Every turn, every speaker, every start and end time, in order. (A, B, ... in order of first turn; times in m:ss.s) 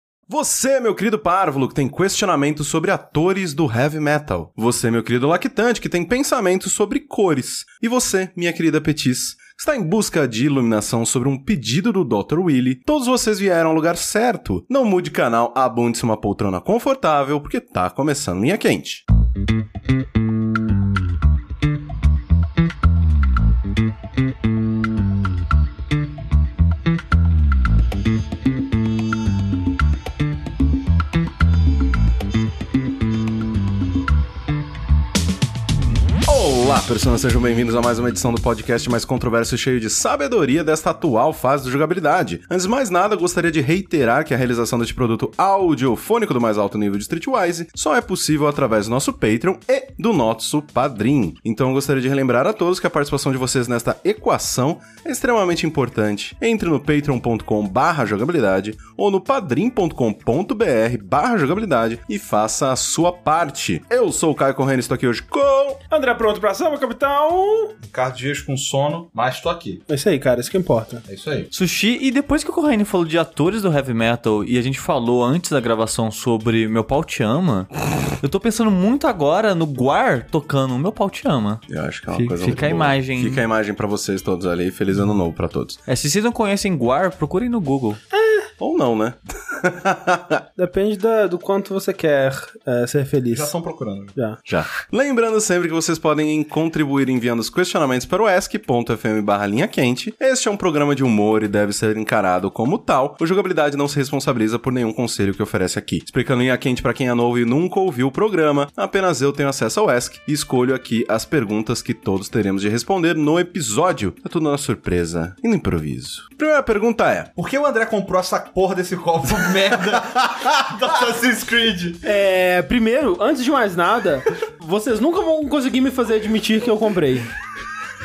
0:00.3-0:19.0 A
0:36.2-1:05.8 A
1:05.9-1:07.8 B
1:07.8-1:09.8 C
1:09.9-1:11.0 B
1:11.1-1:11.5 C
1:11.5-1:23.4 D
1:21.7-1:25.8 A
1:25.9-1:28.0 D
1:28.1-1:28.5 B
1:28.6-1:30.4 A
1:30.6-1:33.5 B
1:33.3-1:34.2 C
1:34.4-1:57.3 A
1:57.4-2:02.0 C
2:02.0-2:07.3 B